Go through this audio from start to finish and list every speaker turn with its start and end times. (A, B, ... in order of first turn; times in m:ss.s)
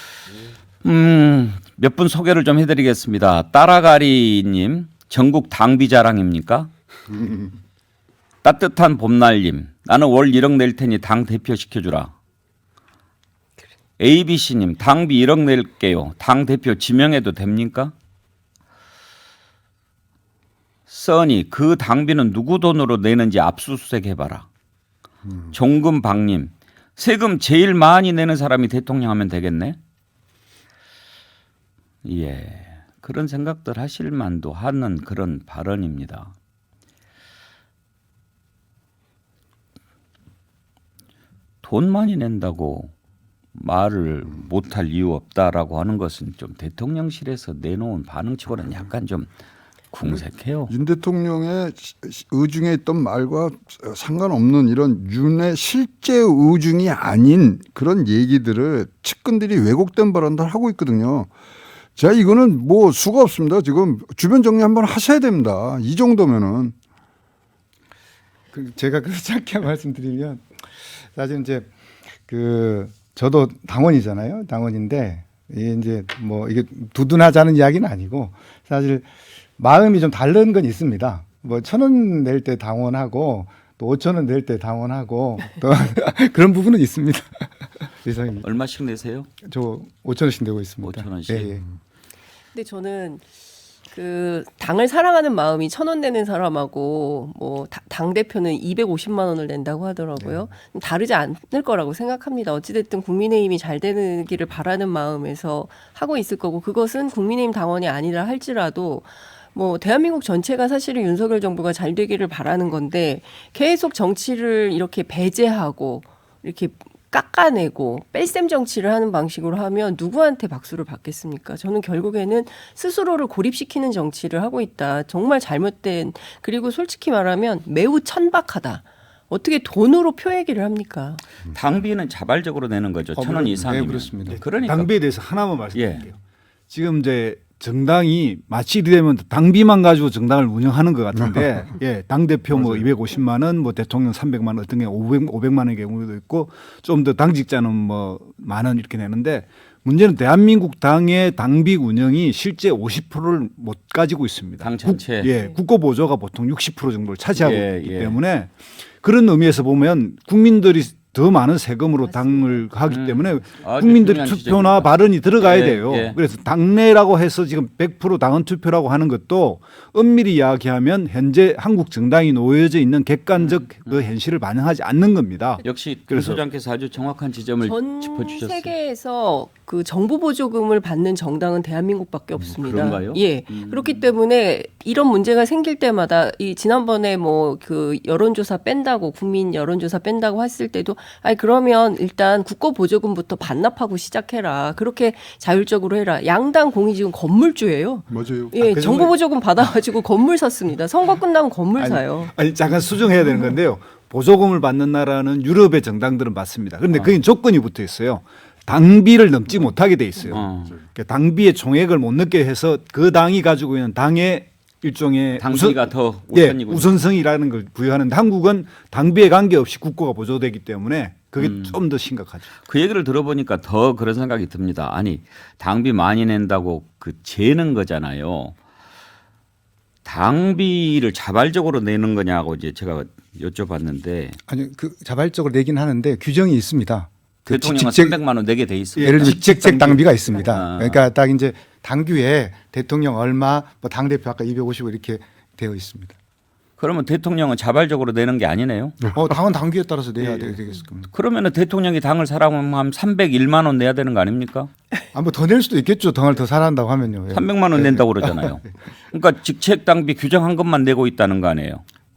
0:00.8-0:06.7 A
0:08.4-0:12.1 A
0:14.0-0:17.9 A
0:20.9-0:24.4 A
0:25.5-0:29.8 A
0:32.0-0:36.3 A
0:41.6-0:42.9 A
0:43.5-0:49.3 A
0:49.9-0:50.7 A
0:50.7-1:01.3 B
1:02.0-1:06.7 B
1:08.5-1:10.5 C
1:11.1-1:11.7 C
1:12.3-1:19.0 C
1:19.6-1:27.5 C
1:28.0-1:28.4 C
1:28.4-1:29.3 A
1:29.4-1:31.6 C
1:30.8-1:31.6 A
1:32.5-1:33.2 D
1:33.9-2:11.2 D
2:11.5-2:14.9 A
2:13.1-2:14.4 C
2:14.3-2:16.2 E
2:15.7-2:16.0 A
2:16.7-2:56.4 E
2:34.6-2:35.3 A
2:37.4-2:38.2 A
2:42.1-2:42.6 D
2:42.9-2:46.2 A
2:53.4-2:53.9 A
2:55.6-2:58.7 A
2:57.6-3:22.3 D
3:02.6-3:04.0 A
3:18.1-3:19.1 E
3:21.8-3:42.5 E
3:30.3-3:30.7 A
3:35.4-3:36.9 A
3:41.4-3:41.8 A
3:42.6-3:48.6 A
3:50.0-3:54.4 A
3:54.5-3:58.2 C
3:57.5-3:59.4 A
3:59.0-4:00.0 E
3:59.0-4:06.2 C
4:00.4-4:01.0 A
4:06.8-4:09.0 A
4:09.1-4:11.1 C
4:11.1-4:14.7 A
4:15.1-4:18.7 C
4:17.3-4:21.8 A